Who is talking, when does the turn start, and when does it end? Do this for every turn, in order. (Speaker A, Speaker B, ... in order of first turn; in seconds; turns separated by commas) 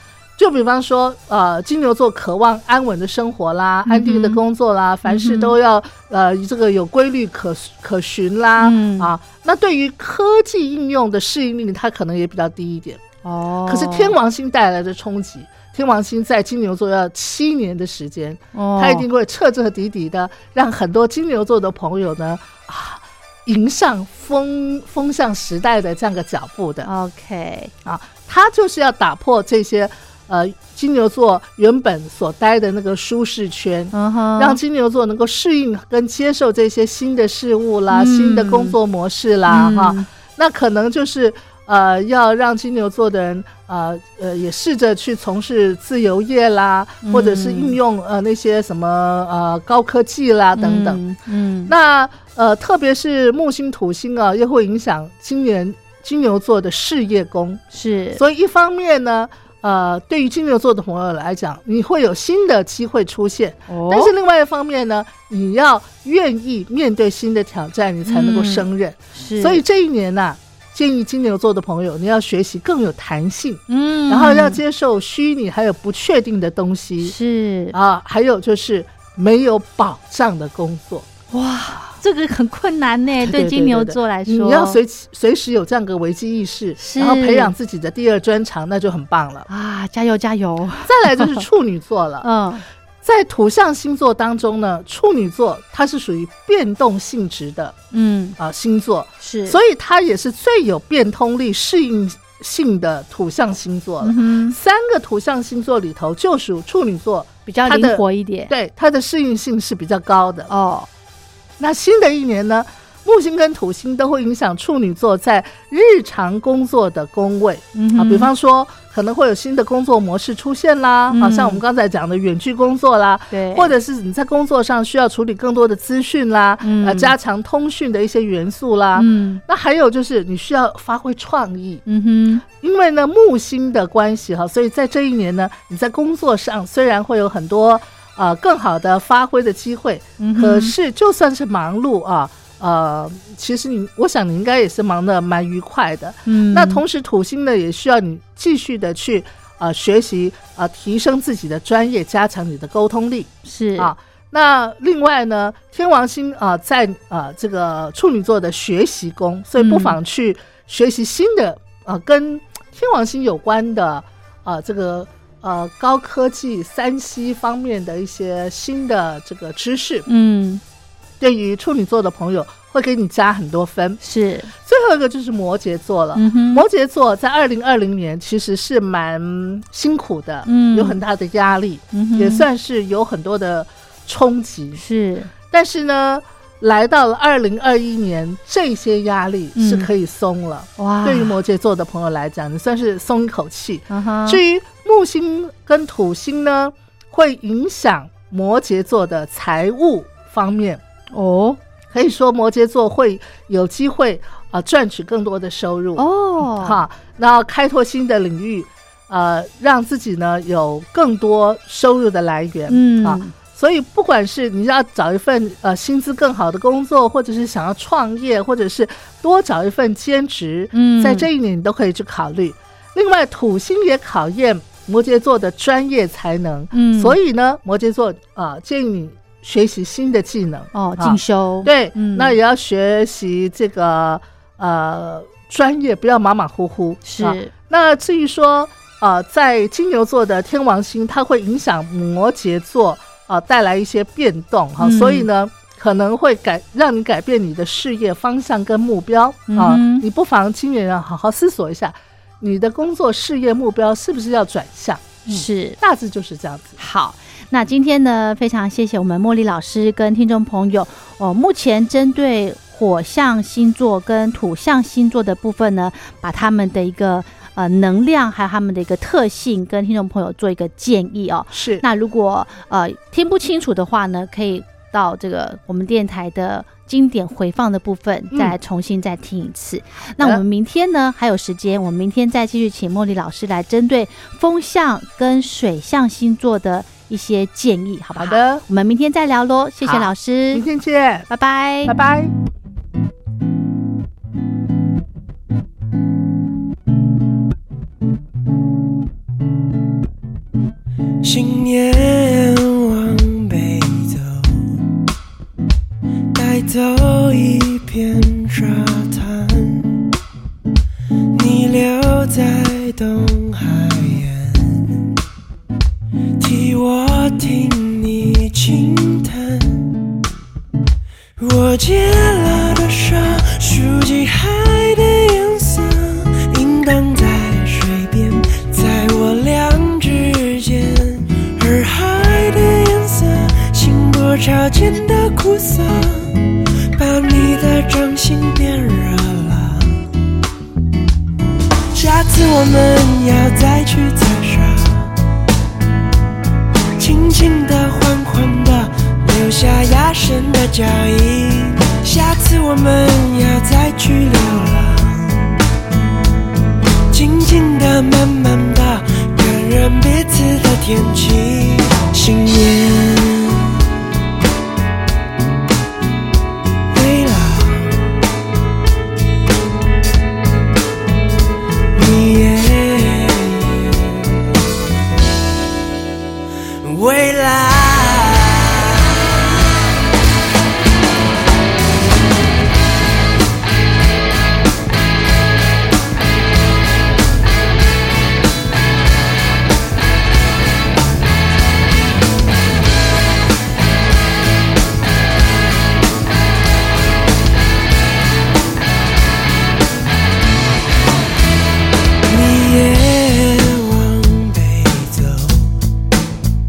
Speaker A: 0.4-13.0, Speaker B: 3.9-4.4, Speaker B: 5.0-5.5, Speaker B: 8.6-9.1, Speaker B: 13.2-14.2, Speaker A: 13.7-26.9, Speaker B: 18.5-19.1, Speaker B: 26.8-27.7, Speaker A: 27.9-51.0, Speaker B: 33.9-34.6, Speaker B: 37.9-38.8, Speaker B: 39.5-40.1, Speaker B: 47.0-47.8, Speaker B: 50.5-51.7, Speaker A: 51.7-57.6, Speaker B: 57.7-58.2, Speaker A: 58.1-77.2, Speaker B: 63.7-64.1, Speaker B: 68.0-69.6, Speaker B: 73.7-74.6, Speaker B: 77.0-77.8, Speaker A: 77.7-81.1, Speaker B: 81.3-84.8, Speaker A: 83.2-89.5, Speaker B: 86.8-87.5, Speaker B: 89.5-91.5, Speaker A: 90.9-92.3, Speaker B: 92.2-92.7, Speaker A: 93.0-97.8, Speaker B: 97.9-98.4, Speaker A: 98.4-110.5, Speaker B: 99.2-99.6, Speaker B: 104.0-104.6, Speaker B: 107.5-108.5, Speaker B: 110.5-110.9, Speaker A: 111.6-131.8, Speaker B: 117.8-118.3, Speaker B: 121.1-121.6, Speaker B: 123.3-123.7, Speaker B: 126.6-127.1, Speaker B: 128.9-129.4, Speaker B: 131.9-132.4, Speaker A: 132.4-170.1, Speaker B: 140.2-140.8, Speaker B: 146.3-146.8, Speaker B: 153.4-153.9, Speaker B: 159.6-160.0, Speaker B: 170.1-170.6, Speaker A: 171.2-174.0, Speaker B: 174.0-174.5, Speaker A: 174.6-184.8, Speaker B: 176.2-176.6, Speaker B: 180.4-181.0, Speaker B: 181.9-182.5, Speaker B: 184.8-185.3, Speaker A: 185.5-200.8, Speaker B: 189.6-189.9, Speaker B: 190.8-191.3, Speaker B: 193.9-194.4, Speaker B: 201.1-201.6, Speaker A: 201.9-256.8, Speaker B: 206.0-206.8, Speaker B: 212.7-213.3, Speaker B: 220.7-221.3, Speaker B: 226.7-227.2, Speaker B: 230.7-232.4, Speaker B: 237.1-237.5, Speaker B: 244.8-245.3, Speaker B: 249.5-250.1, Speaker B: 255.3-255.8, Speaker B: 256.8-290.6, Speaker A: 271.5-271.9, Speaker A: 288.1-288.6, Speaker A: 289.8-291.3, Speaker B: 291.3-292.0, Speaker A: 291.8-292.3, Speaker C: 301.2-304.8, Speaker C: 306.3-310.0, Speaker C: 311.3-315.1, Speaker C: 316.4-320.0, Speaker C: 321.4-340.1, Speaker C: 341.9-345.1, Speaker C: 347.0-355.6, Speaker C: 357.1-363.7, Speaker C: 366.9-368.1, Speaker C: 371.9-374.2, Speaker C: 376.8-379.2, Speaker C: 402.3-405.7